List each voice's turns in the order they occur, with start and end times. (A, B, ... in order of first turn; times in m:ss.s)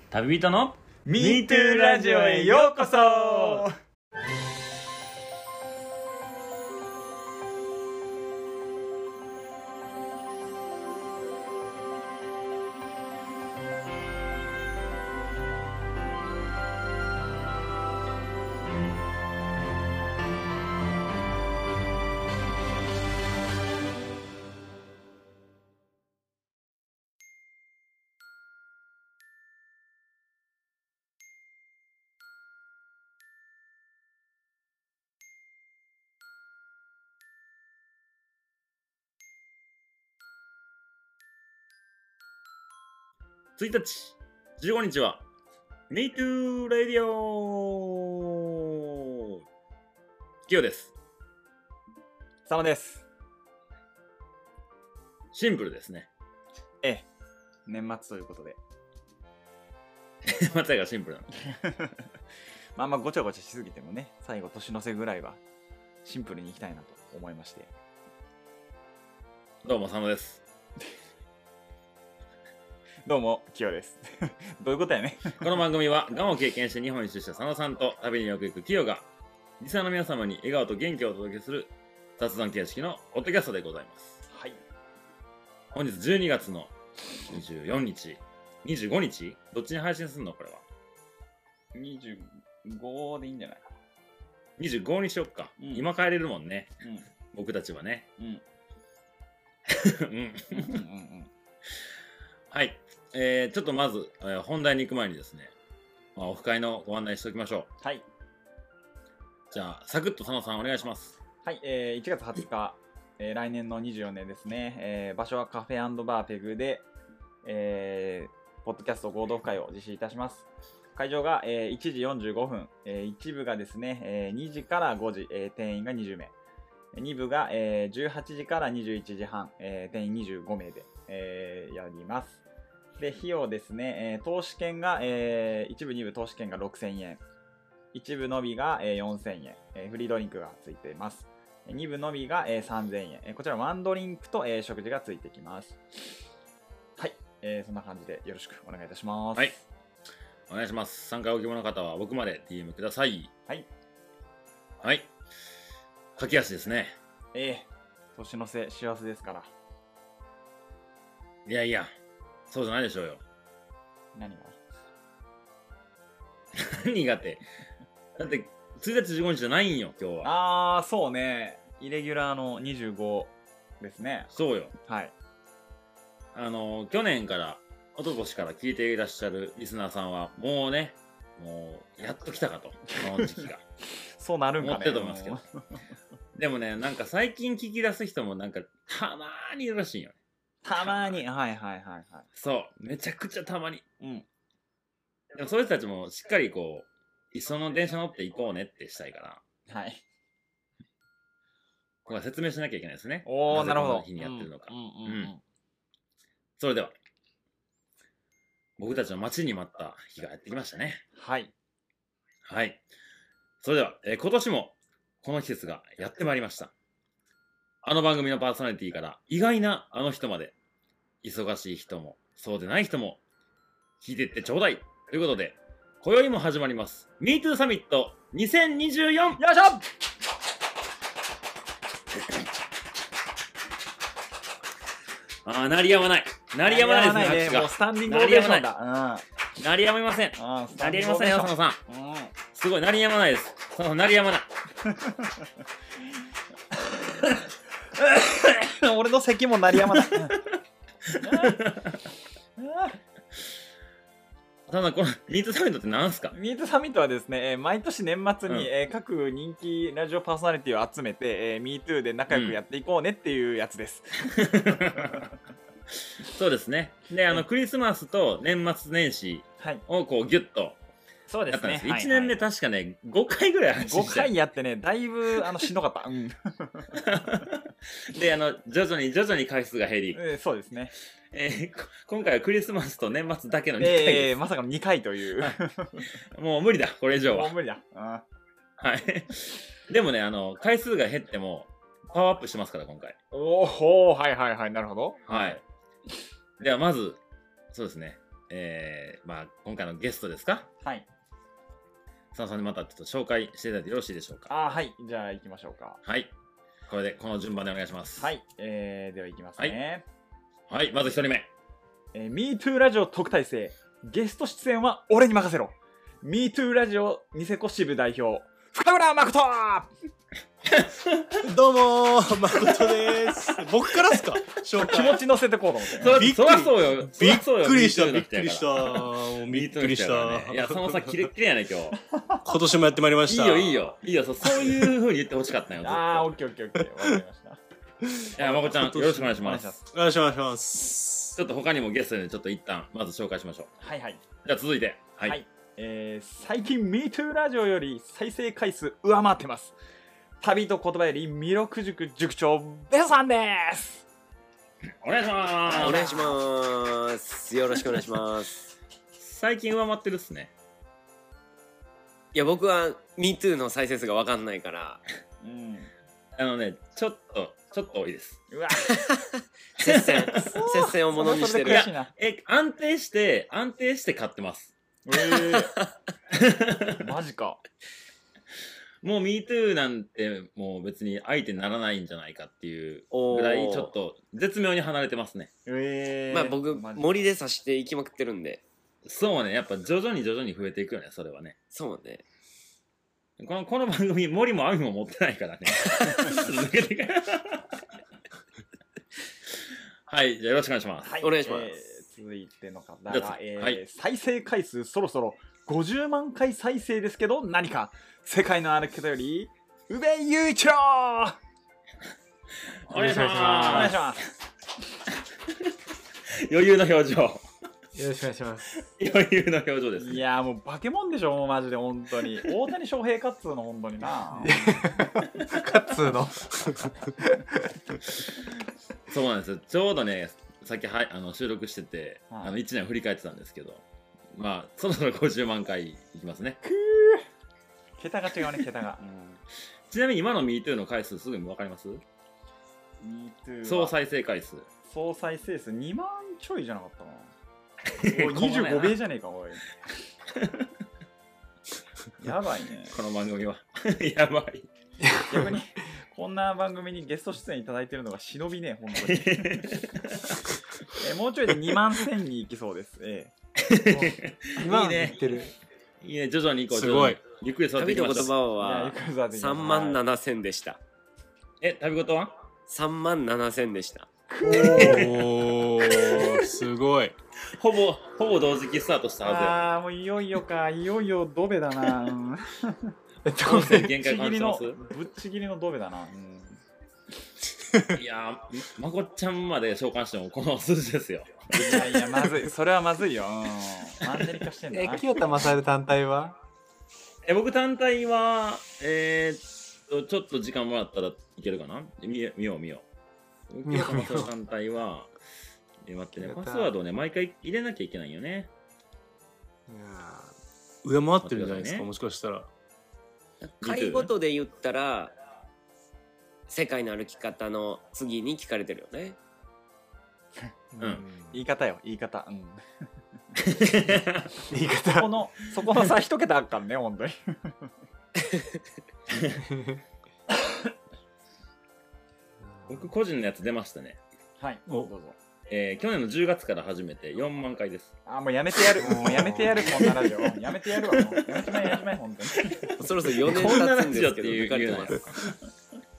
0:00.1-0:02.6 A
0:01.0-0:03.7 B
0:43.6-0:45.2 A
0:45.9-0:48.8 A
0:50.5-0:50.9 A
0:52.5-0:53.0 B
0:55.3-0:56.1 A
0:56.8-0:57.1 B
0:57.7-0:58.6 B
1:00.2-1:01.3 A
1:02.8-1:05.4 B
1:06.0-1:07.7 B
1:09.6-1:10.4 A
1:13.1-1:15.4 B
1:15.4-1:19.1 A
1:19.6-1:24.2 A
1:24.3-1:24.6 B
1:25.7-1:26.7 A
1:27.3-1:30.6 A
1:31.7-1:33.6 B
1:34.6-1:36.8 A
1:35.6-1:35.9 B
1:37.3-1:38.1 A
1:39.7-1:40.8 A
1:40.5-1:41.3 B
1:42.5-1:45.5 A
1:46.2-1:47.7 A
1:49.5-1:51.2 A
1:51.4-1:56.9 B
1:57.4-2:06.3 B
2:07.0-2:12.4 B
2:13.0-2:17.2 B
2:17.9-2:25.8 B
2:27.0-2:29.6 B
2:30.5-2:33.3 A
2:34.8-2:35.1 A
2:36.2-2:37.0 A
2:37.3-2:39.5 B
2:41.5-2:41.9 A
2:42.5-2:43.2 A
2:44.2-2:44.6 B
2:46.6-2:47.4 A
2:48.2-2:50.3 A
2:50.2-2:55.1 B
2:54.3-2:54.7 A
2:56.3-3:03.6 A
3:04.1-3:05.5 B
3:04.6-3:05.4 A
3:06.4-3:10.2 A
3:10.6-3:12.3 B
3:10.8-3:11.2 A
3:12.4-3:13.8 A
3:14.0-3:14.3 B
3:15.3-3:19.4 A
3:19.7-3:20.0 B
3:22.1-3:25.3 A
3:23.2-3:25.4 B
3:26.6-3:27.0 A
3:28.8-3:31.0 A
3:31.2-3:31.5 B
3:32.5-3:32.8 A
3:33.6-3:36.7 A
3:37.8-3:40.6 A
3:41.2-3:43.2 A
3:44.0-3:49.4 A
3:49.4-3:49.8 B
3:55.4-3:58.7 A
3:56.6-3:59.2 B
3:59.6-4:01.8 A
4:00.4-4:02.3 B
4:02.5-4:04.5 A
4:06.9-4:07.3 B
4:08.0-4:10.4 B
4:11.2-4:11.6 B
4:11.3-4:12.0 A
4:12.6-4:13.0 B
4:14.7-4:16.3 A
4:16.3-4:24.1 B
4:22.3-4:22.6 A
4:24.3-4:25.3 A
4:26.2-4:30.8 A
4:31.3-4:32.4 B
4:31.5-4:34.3 A
4:33.8-4:36.9 B
4:37.0-4:40.2 A
4:40.1-4:40.9 B
4:41.3-4:44.3 A
4:43.8-4:46.0 B
4:46.3-4:47.5 A
4:47.2-4:48.2 B
4:48.8-4:53.2 A
4:53.3-4:55.6 B
4:55.3-4:55.6 A
4:56.6-4:57.2 A
4:57.7-5:00.7 A
5:02.3-5:04.5 A
5:04.5-5:06.0 B
5:06.0-5:06.3 A
5:06.9-5:08.3 A
5:08.2-5:10.0 B
5:10.7-5:11.5 A
5:12.1-5:19.9 B
5:20.6-5:21.4 A
5:21.4-5:25.3 C
5:24.8-5:26.3 B
5:26.0-5:32.0 A
5:26.1-5:31.3 C
5:32.2-5:32.5 B
5:32.4-5:33.9 C
5:33.2-5:36.3 A
5:35.8-5:37.6 B
5:38.1-5:41.4 C
5:38.4-5:39.8 A
5:38.4-5:39.8 B
5:41.4-5:43.7 A
5:43.8-5:44.2 B
5:44.4-5:45.4 A
5:45.2-5:49.8 B
5:50.4-5:54.0 B
5:55.0-5:56.0 A
5:55.7-5:56.4 B
5:55.7-5:58.6 D
5:59.2-6:00.5 A
6:02.3-6:05.0 D
6:05.4-6:05.9 B
6:06.4-6:08.4 A
6:08.5-6:09.0 B
6:09.8-6:11.9 D
6:09.8-6:10.5 A
6:10.5-6:12.1 B
6:11.7-6:14.7 A
6:15.1-6:15.7 B
6:16.3-6:17.0 A
6:17.0-6:17.6 B
6:19.0-6:25.5 A
6:23.1-6:23.9 D
6:25.7-6:27.2 B
6:26.3-6:28.6 D
6:29.0-6:31.6 A
6:31.7-6:32.2 D
6:33.4-6:37.8 A
6:40.1-6:41.1 A
6:41.0-6:51.4 B
6:41.2-6:41.7 D
6:43.1-6:43.8 A
6:52.8-6:54.1 A
6:52.9-6:54.0 E
6:53.4-6:54.3 B
6:56.3-6:57.4 A
6:58.0-6:58.7 E
6:58.9-7:00.2 A
7:00.0-7:04.8 B
7:04.3-7:07.7 E
7:09.1-7:16.6 A
7:16.6-7:17.2 B
7:18.0-7:19.4 B
7:19.9-7:22.0 A
7:23.0-7:24.0 B
7:23.6-7:24.7 A
7:24.9-7:27.3 B
7:27.9-7:29.0 A
7:28.0-7:29.6 B
7:30.4-7:30.7 A
7:32.2-7:33.0 B
7:32.9-7:34.7 A
7:35.0-7:35.6 E
7:35.3-7:39.6 B
7:39.0-7:40.4 A
7:41.0-7:43.3 B
7:43.6-7:45.2 A
7:44.5-7:45.6 E
7:46.0-7:48.3 A
7:46.7-7:47.2 C
7:47.8-7:50.8 D
7:48.6-7:50.0 B
7:51.6-7:52.3 A
7:52.7-7:54.1 D
7:54.3-7:55.2 B
7:54.5-7:55.2 A
7:54.5-7:57.2 C
7:55.9-7:56.3 B
7:57.6-7:59.7 A
7:59.2-8:02.8 B
8:03.2-8:04.0 E
8:03.4-8:04.8 A
8:04.0-8:06.6 B
8:08.0-8:12.0 A
8:11.5-8:15.1 B
8:14.7-8:16.4 E
8:17.2-8:22.9 A
8:23.5-8:25.1 A
8:23.6-8:24.3 E
8:25.8-8:28.5 A
8:26.2-8:26.7 E
8:29.7-8:30.4 E
8:30.8-8:32.5 C
8:31.2-8:31.9 A
8:33.4-8:34.1 A
8:33.6-8:35.1 D
8:36.5-8:39.2 D
8:40.7-8:41.4 E
8:41.3-8:42.6 B
8:43.4-8:44.3 A
8:44.5-8:45.2 E
8:45.0-8:47.5 B
8:49.5-8:49.8 E
8:52.4-8:52.9 E
8:52.7-8:54.0 A
8:54.4-8:55.2 B
8:55.5-8:57.9 A
8:58.1-9:02.7 B
8:58.8-8:59.8 E
9:02.8-9:05.0 D
9:03.1-9:05.4 A